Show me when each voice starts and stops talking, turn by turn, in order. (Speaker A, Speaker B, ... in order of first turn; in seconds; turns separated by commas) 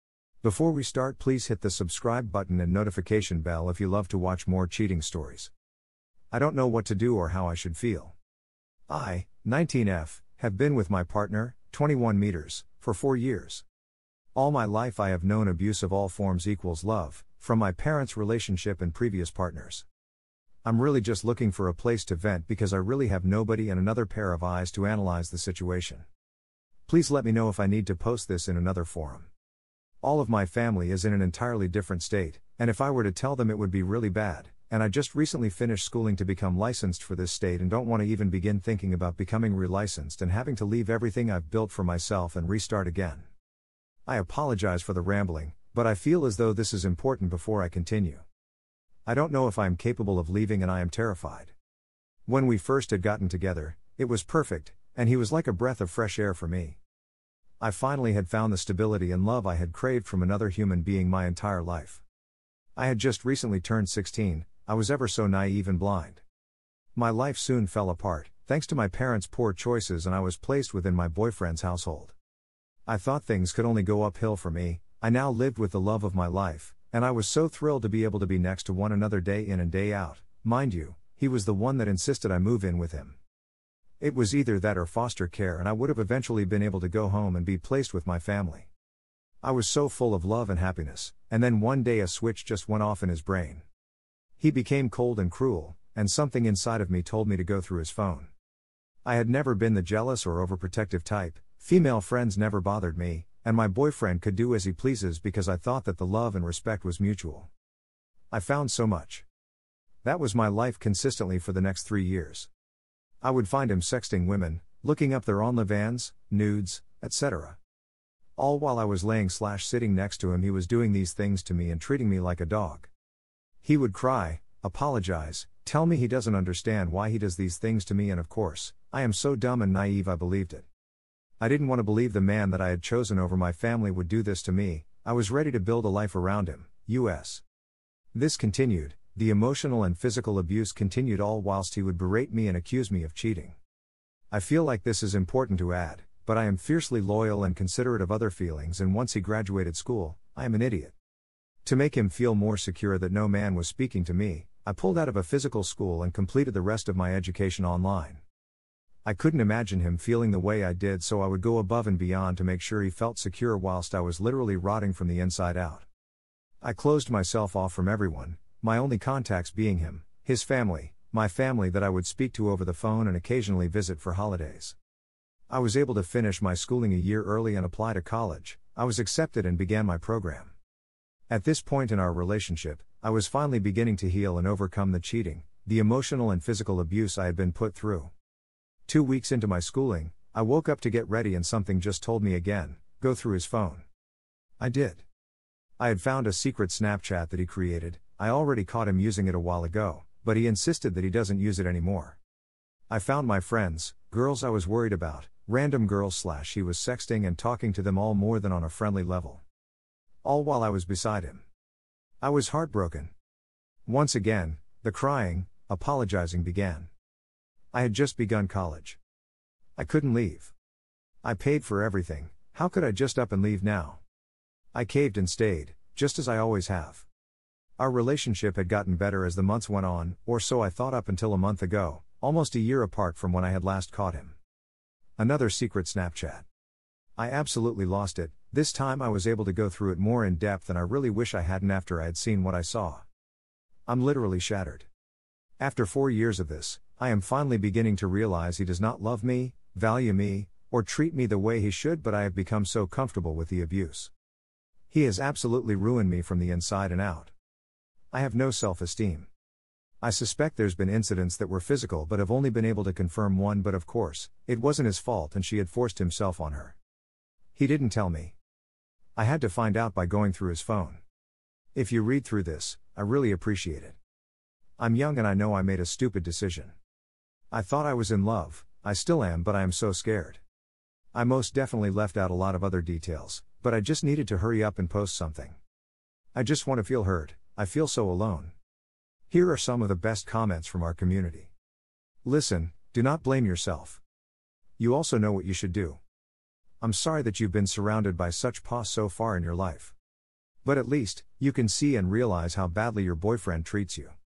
Speaker A: 0.4-5.5, Speaker A: 6.3-8.1, Speaker A: 8.9-13.6, Speaker A: 14.3-19.9, Speaker A: 20.6-26.0, Speaker A: 26.9-29.3, Speaker A: 30.0-43.3, Speaker A: 44.1-48.2, Speaker A: 49.0-51.5, Speaker A: 52.2-56.8, Speaker A: 57.6-62.0, Speaker A: 62.8-66.2, Speaker A: 66.9-72.2, Speaker A: 72.9-83.2, Speaker A: 84.0-88.7, Speaker A: 89.4-93.6, Speaker A: 94.4-98.3, Speaker A: 99.0-107.5, Speaker A: 108.3-109.2, Speaker A: 110.0-112.5, Speaker A: 113.2-117.6, Speaker A: 118.4-122.9, Speaker A: 123.6-130.7, Speaker A: 131.4-137.4, Speaker A: 138.1-143.6, Speaker A: 144.3-150.9, Speaker A: 151.6-158.2, Speaker A: 159.0-165.8, Speaker A: 166.6-174.8, Speaker A: 175.5-180.5, Speaker A: 181.3-188.1, Speaker A: 188.9-193.8, Speaker A: 194.6-195.0, Speaker A: 195.8-202.2, Speaker A: 202.9-209.4, Speaker A: 210.2-211.4, Speaker A: 212.2-213.1, Speaker A: 213.8-216.9, Speaker A: 217.7-219.0, Speaker A: 219.8-220.5, Speaker A: 221.2-224.0, Speaker A: 224.7-227.1, Speaker A: 227.8-234.4, Speaker A: 235.2-236.4, Speaker A: 237.2-243.0, Speaker A: 243.9-244.9, Speaker A: 245.6-254.1, Speaker A: 254.9-257.3, Speaker A: 258.1-259.3, Speaker A: 260.0-266.8, Speaker A: 267.5-268.4, Speaker A: 269.1-271.0, Speaker A: 271.7-274.0, Speaker A: 274.8-276.7, Speaker A: 277.5-280.4, Speaker A: 281.1-285.6, Speaker A: 286.3-288.5, Speaker A: 289.3-291.5, Speaker A: 292.2-294.0, Speaker A: 294.8-296.0, Speaker A: 296.8-299.9, Speaker A: 300.6-304.1